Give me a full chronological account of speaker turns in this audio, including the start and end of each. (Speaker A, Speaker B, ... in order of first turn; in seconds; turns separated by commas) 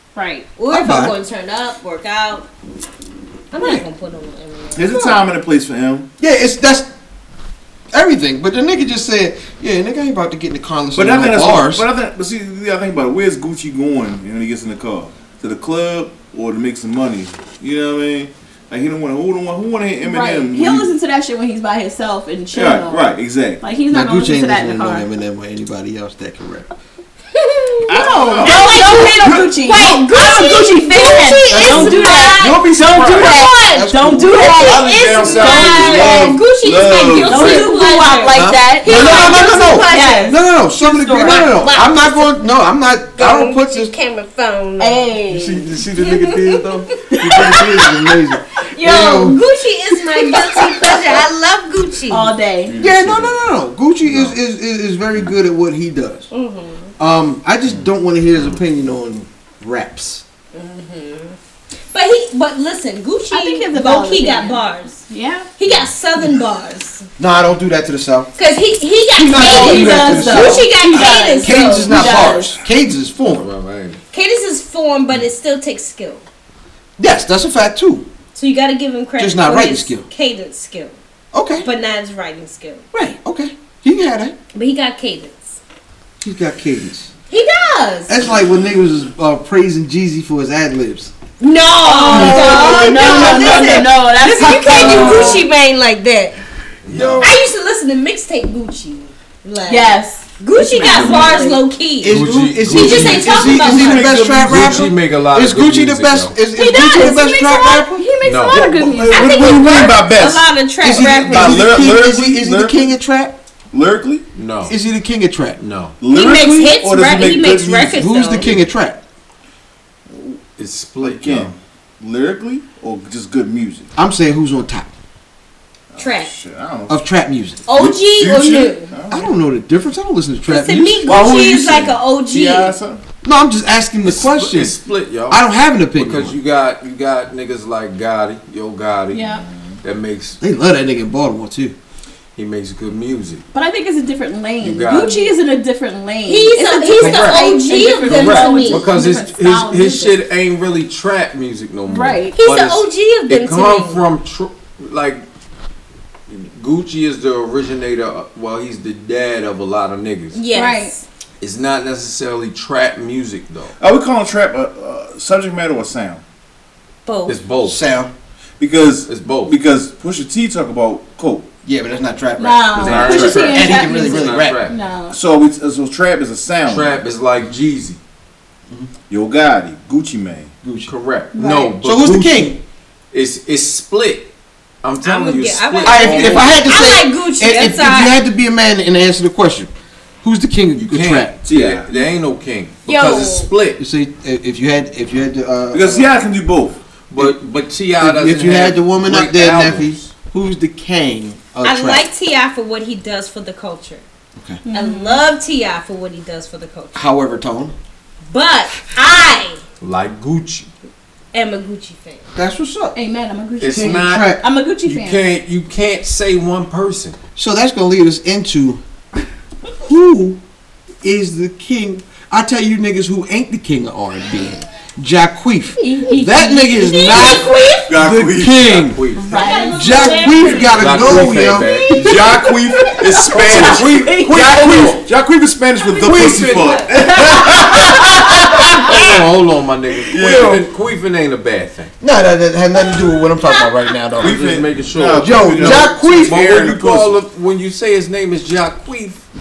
Speaker A: 0.1-0.5, Speaker B: 0.6-2.5, Speaker C: 0.7-1.1, Speaker B: 3.5-5.2, Speaker C: 3.6-3.8, Speaker D: 4.7-6.1, Speaker C: 6.2-6.9, Speaker C: 7.9-11.8, Speaker D: 11.0-20.9, Speaker A: 20.0-23.1, Speaker D: 22.5-23.6, Speaker A: 23.6-25.1, Speaker C: 23.9-26.7, Speaker B: 27.3-40.4, Speaker D: 27.9-29.4, Speaker A: 27.9-36.3, Speaker C: 31.5-34.6, Speaker D: 34.5-37.7, Speaker C: 35.9-36.3, Speaker A: 37.2-41.5, Speaker C: 38.3-43.9, Speaker B: 41.2-42.3, Speaker B: 43.2-45.4, Speaker A: 44.8-45.7, Speaker C: 45.3-49.4, Speaker B: 46.0-47.9, Speaker A: 47.1-47.5, Speaker A: 48.7-49.4, Speaker B: 48.8-52.4, Speaker A: 50.1-50.4, Speaker A: 52.1-52.8, Speaker D: 52.7-53.3, Speaker C: 52.8-56.3, Speaker B: 56.3-56.9, Speaker C: 57.0-60.2, Speaker B: 60.5-61.4, Speaker B: 61.9-65.0, Speaker A: 63.3-65.5, Speaker B: 65.6-67.0, Speaker C: 67.2-68.3, Speaker B: 68.4-72.4, Speaker C: 69.2-73.5, Speaker A: 69.3-72.6, Speaker E: 73.2-74.0, Speaker B: 74.1-76.2, Speaker C: 77.0-78.1, Speaker B: 78.3-81.0, Speaker C: 79.2-80.1, Speaker C: 81.3-81.7, Speaker B: 81.6-82.9, Speaker C: 82.9-84.4, Speaker B: 84.5-85.6, Speaker C: 86.2-87.1, Speaker B: 87.3-88.2, Speaker C: 88.1-91.1, Speaker B: 91.4-96.4, Speaker A: 91.8-95.5, Speaker C: 92.0-93.9, Speaker C: 94.8-95.3, Speaker C: 96.9-97.3, Speaker E: 96.9-97.3, Speaker B: 97.2-104.1, Speaker A: 99.7-101.6, Speaker C: 102.0-108.1, Speaker E: 102.1-103.5, Speaker D: 103.0-104.9, Speaker E: 104.4-106.3, Speaker A: 106.6-109.7, Speaker E: 108.2-108.6, Speaker D: 108.5-110.5, Speaker B: 109.1-111.7, Speaker C: 110.8-113.4, Speaker D: 111.3-112.8, Speaker D: 113.7-114.2, Speaker E: 114.3-114.8, Speaker C: 114.7-115.6, Speaker E: 115.6-116.0, Speaker D: 116.0-118.0, Speaker B: 116.1-118.5, Speaker C: 118.0-119.0, Speaker D: 120.1-120.4, Speaker E: 120.6-121.5, Speaker D: 121.0-123.9, Speaker C: 124.0-124.9, Speaker D: 125.9-127.0, Speaker B: 126.0-126.3, Speaker C: 126.9-127.6, Speaker B: 127.7-128.9, Speaker D: 127.7-129.3, Speaker C: 129.1-131.9, Speaker B: 130.5-132.8, Speaker D: 132.3-133.0, Speaker C: 133.2-136.4, Speaker E: 134.0-140.4, Speaker A: 139.1-139.4, Speaker D: 139.4-139.8, Speaker C: 140.4-141.8, Speaker E: 142.3-143.4, Speaker A: 143.5-150.2, Speaker E: 144.6-145.3, Speaker B: 146.3-148.9, Speaker E: 147.0-147.5, Speaker E: 148.0-155.2, Speaker A: 151.9-152.4, Speaker B: 152.4-154.1, Speaker E: 156.3-160.4, Speaker B: 160.3-161.0, Speaker A: 160.5-160.9, Speaker E: 161.4-163.8, Speaker D: 163.8-166.2, Speaker B: 167.1-167.4, Speaker E: 167.3-167.8, Speaker C: 167.6-168.1, Speaker D: 168.6-171.5, Speaker E: 169.0-169.6, Speaker C: 171.7-174.6, Speaker A: 172.4-175.2, Speaker E: 172.8-174.8, Speaker D: 175.1-177.0, Speaker E: 176.7-178.0, Speaker D: 179.1-180.5, Speaker C: 180.6-180.9, Speaker E: 180.9-182.5, Speaker A: 181.3-181.8, Speaker C: 181.8-182.6, Speaker E: 183.1-184.3, Speaker E: 184.8-186.6, Speaker B: 185.0-188.2, Speaker C: 185.8-191.4, Speaker E: 190.8-193.8, Speaker D: 191.4-191.9, Speaker B: 192.9-193.5, Speaker A: 193.1-193.3, Speaker C: 193.8-196.1, Speaker D: 195.7-196.8, Speaker E: 197.1-200.1, Speaker C: 198.0-202.0, Speaker B: 201.6-204.0, Speaker A: 204.7-205.2, Speaker B: 204.7-207.0, Speaker C: 206.9-207.8, Speaker B: 208.3-209.6, Speaker E: 209.8-210.7, Speaker B: 211.3-212.2, Speaker C: 212.3-213.0, Speaker A: 213.0-215.2, Speaker E: 213.6-217.2, Speaker C: 213.6-214.4, Speaker C: 217.4-218.8, Speaker C: 219.8-220.4, Speaker C: 221.0-229.0, Speaker A: 225.8-227.4, Speaker B: 226.8-227.9, Speaker D: 227.9-228.8, Speaker E: 228.6-229.4, Speaker A: 229.2-230.8, Speaker B: 229.3-231.3, Speaker C: 229.7-231.8, Speaker E: 230.8-232.3, Speaker A: 231.7-235.0, Speaker D: 231.9-239.0, Speaker E: 233.3-235.0, Speaker E: 236.0-236.8, Speaker A: 236.6-238.7, Speaker E: 238.8-241.9, Speaker D: 240.1-240.7, Speaker C: 240.1-240.7, Speaker C: 242.0-244.4, Speaker D: 244.2-247.2, Speaker E: 244.2-249.2, Speaker C: 245.2-246.5